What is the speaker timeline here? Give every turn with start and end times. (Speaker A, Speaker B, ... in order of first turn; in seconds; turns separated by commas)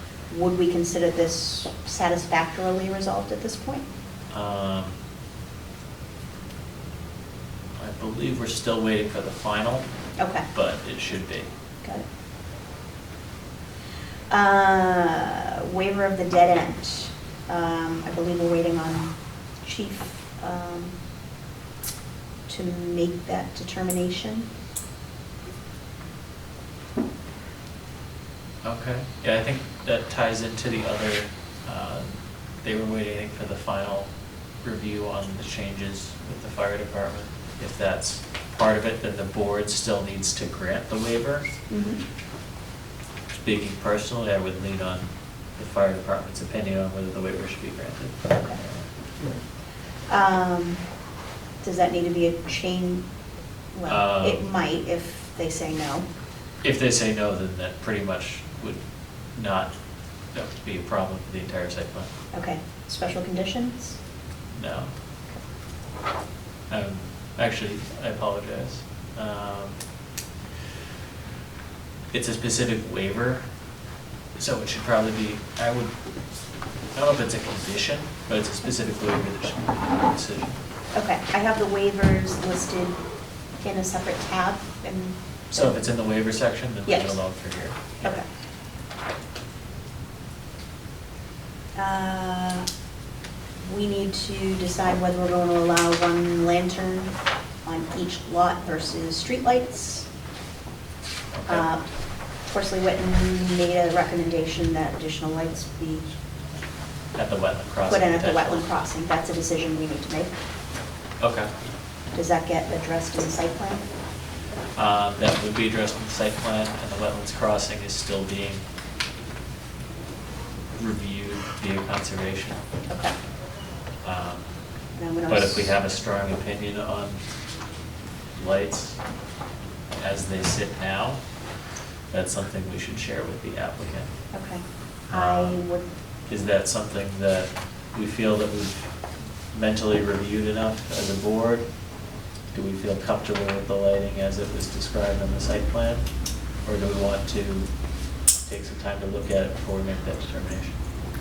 Speaker A: 0.3-3.9, Speaker B: 4.3-5.0, Speaker B: 7.8-9.8, Speaker A: 10.2-10.5, Speaker B: 10.5-11.5, Speaker A: 14.3-20.9, Speaker A: 22.5-24.5, Speaker B: 28.6-34.1, Speaker B: 34.6-41.5, Speaker A: 41.7-42.0, Speaker B: 43.4-48.9, Speaker A: 50.1-50.8, Speaker A: 51.6-53.1, Speaker A: 53.7-56.1, Speaker B: 53.9-54.4, Speaker B: 56.6-58.8, Speaker B: 59.3-59.7, Speaker B: 60.3-62.1, Speaker A: 62.3-64.0, Speaker B: 64.5-64.9, Speaker B: 66.7-69.8, Speaker B: 72.1-73.4, Speaker B: 74.4-75.9, Speaker B: 77.0-80.6, Speaker A: 80.9-83.0, Speaker A: 83.6-85.8, Speaker B: 85.5-88.2, Speaker A: 86.9-87.2, Speaker A: 91.8-92.7, Speaker A: 93.6-97.1, Speaker A: 97.7-100.1, Speaker B: 101.3-101.7, Speaker A: 101.5-101.9, Speaker A: 102.5-106.2, Speaker B: 107.2-108.7, Speaker A: 107.9-110.3, Speaker B: 111.2-111.5, Speaker A: 112.1-113.8, Speaker B: 114.8-118.6, Speaker B: 120.8-122.6, Speaker A: 122.9-123.2, Speaker B: 124.0-124.5, Speaker A: 125.0-125.8, Speaker B: 125.3-127.2, Speaker B: 128.4-129.0, Speaker B: 129.9-131.2, Speaker B: 132.1-134.1, Speaker A: 134.3-135.9, Speaker B: 135.1-135.6, Speaker B: 136.3-138.9, Speaker B: 139.5-141.7, Speaker B: 142.5-146.1, Speaker B: 146.7-147.7, Speaker B: 148.4-150.8